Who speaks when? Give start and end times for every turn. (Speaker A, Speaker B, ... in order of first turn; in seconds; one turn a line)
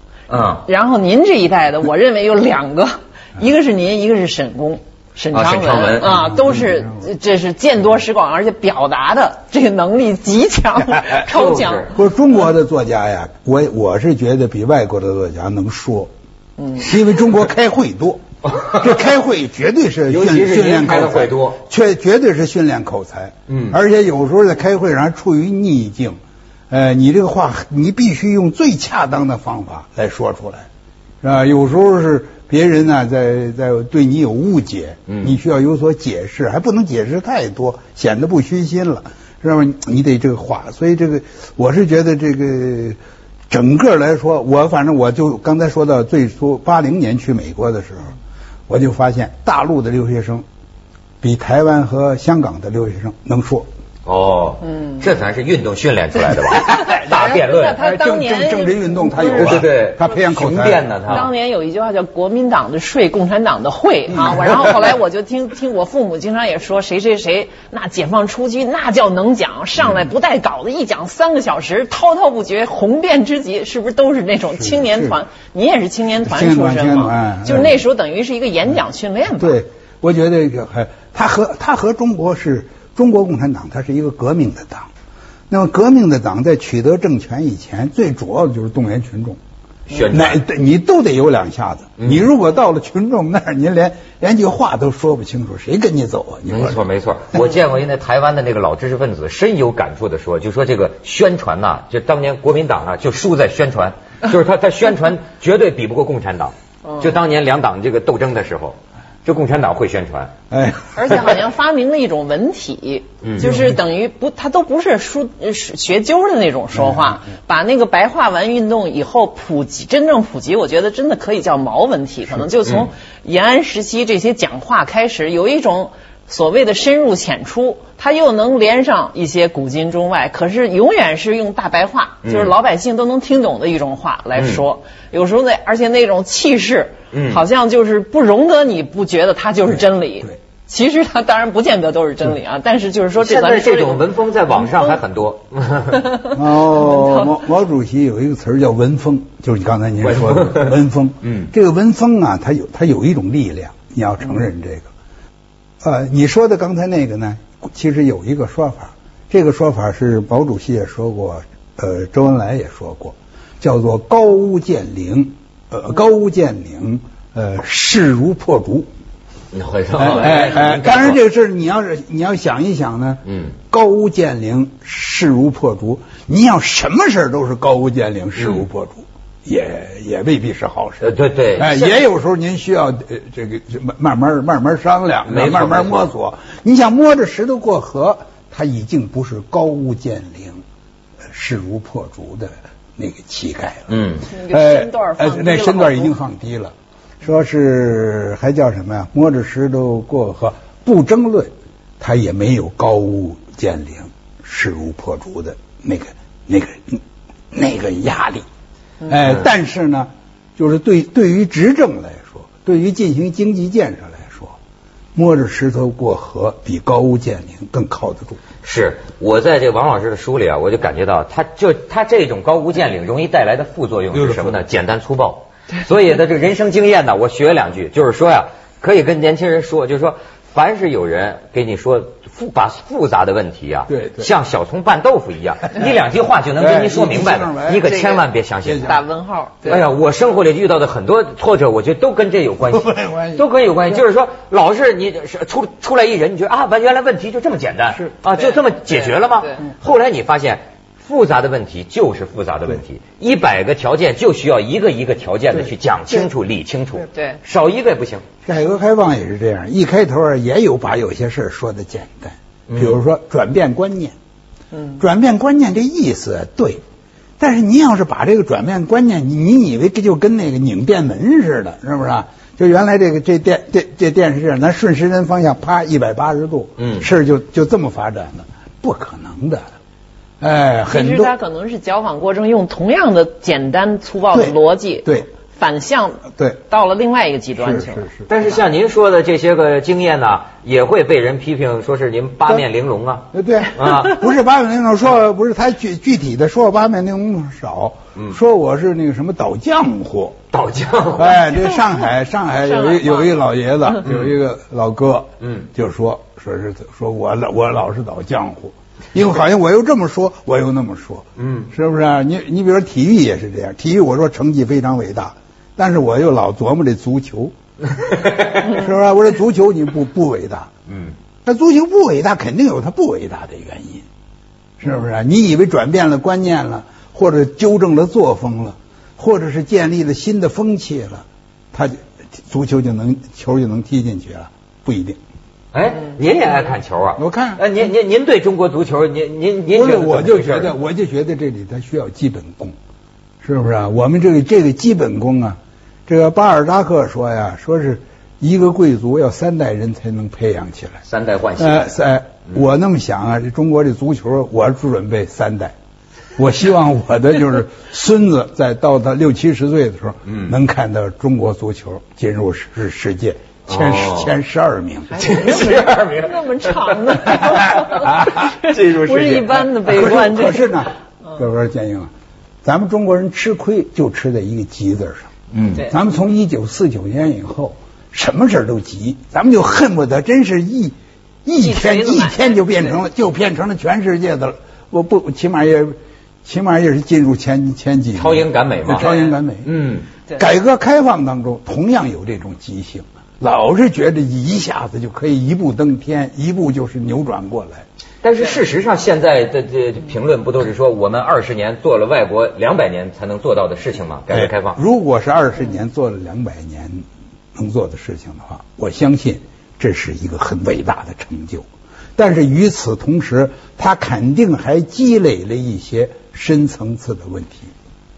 Speaker A: 0.3-0.7
Speaker B: 0.7-11.9
Speaker A: 5.3-6.2
Speaker C: 6.0-7.1
Speaker A: 11.2-11.9
Speaker C: 11.9-16.1
Speaker C: 16.7-26.2
Speaker A: 18.5-19.1
Speaker A: 20.1-21.6
Speaker A: 23.5-23.8
Speaker C: 26.7-30.7
Speaker C: 31.2-43.0
Speaker A: 35.1-35.3
Speaker C: 43.5-48.1
Speaker C: 48.7-50.5
Speaker C: 51.2-53.7
Speaker A: 54.0-57.8
Speaker B: 56.4-59.7
Speaker C: 56.4-61.2
Speaker A: 59.2-61.3
Speaker B: 61.1-79.6
Speaker C: 64.1-64.6
Speaker C: 74.6-75.2
Speaker C: 76.2-77.8
Speaker C: 79.4-84.9
Speaker C: 85.5-89.4
Speaker A: 89.9-90.4
Speaker C: 90.1-96.8
Speaker A: 92.0-92.3
Speaker A: 96.5-110.3
Speaker C: 110.5-111.4
Speaker B: 110.9-145.0
Speaker A: 113.2-113.5
Speaker C: 113.4-113.8
Speaker A: 132.2-132.5
Speaker A: 137.1-137.4
Speaker A: 143.2-146.1
Speaker C: 146.3-154.9
Speaker B: 146.8-147.3
Speaker A: 150.1-151.5
Speaker C: 155.8-168.9
Speaker A: 169.5-171.2
Speaker C: 169.9-190.6
Speaker A: 173.3-173.6
Speaker A: 178.4-178.6
Speaker A: 181.0-181.8
Speaker A: 185.3-186.1
Speaker C: 191.3-193.9
Speaker A: 193.9-194.3
Speaker B: 194.2-196.2
Speaker C: 194.5-208.4
Speaker C: 209.0-214.6
Speaker C: 215.2-218.4
Speaker A: 218.6-239.0
Speaker C: 224.1-224.6
Speaker C: 233.9-234.3
Speaker C: 236.6-237.9
Speaker B: 237.9-238.2
Speaker C: 238.6-239.0
Speaker B: 238.8-239.8
Speaker A: 239.7-258.2
Speaker C: 242.7-243.4
Speaker B: 248.4-249.7
Speaker C: 255.5-256.2
Speaker B: 257.1-257.4
Speaker C: 258.4-264.1
Speaker A: 262.7-263.0
Speaker B: 264.7-265.0
Speaker C: 265.0-266.8
Speaker C: 267.4-279.6
Speaker A: 276.8-277.1
Speaker C: 280.4-281.3
Speaker B: 280.9-288.1
Speaker C: 284.3-285.3
Speaker C: 287.6-288.3
Speaker A: 288.3-294.2
Speaker C: 293.3-300.4
Speaker A: 300.5-301.5
Speaker C: 301.1-317.5
Speaker B: 302.7-303.3
Speaker A: 304.0-304.3
Speaker A: 305.4-305.7
Speaker A: 311.4-311.7
Speaker A: 318.0-318.7
Speaker C: 318.5-320.7
Speaker A: 320.9-321.1
Speaker C: 321.4-324.1
Speaker C: 324.8-335.2
Speaker A: 335.7-340.7
Speaker C: 337.2-337.6
Speaker C: 339.7-342.8
Speaker C: 343.4-351.0
Speaker A: 351.1-351.9
Speaker C: 351.6-355.7
Speaker C: 356.4-365.2
Speaker A: 360.3-360.5
Speaker A: 363.7-364.4
Speaker B: 365.1-370.8
Speaker A: 365.2-369.8
Speaker C: 367.5-368.5
Speaker C: 369.9-372.1
Speaker C: 372.6-375.3
Speaker A: 375.5-375.9
Speaker C: 375.9-389.7
Speaker B: 381.6-383.0
Speaker A: 388.1-390.1
Speaker B: 389.0-389.3
Speaker C: 390.4-397.9
Speaker A: 398.2-404.8
Speaker C: 404.3-417.7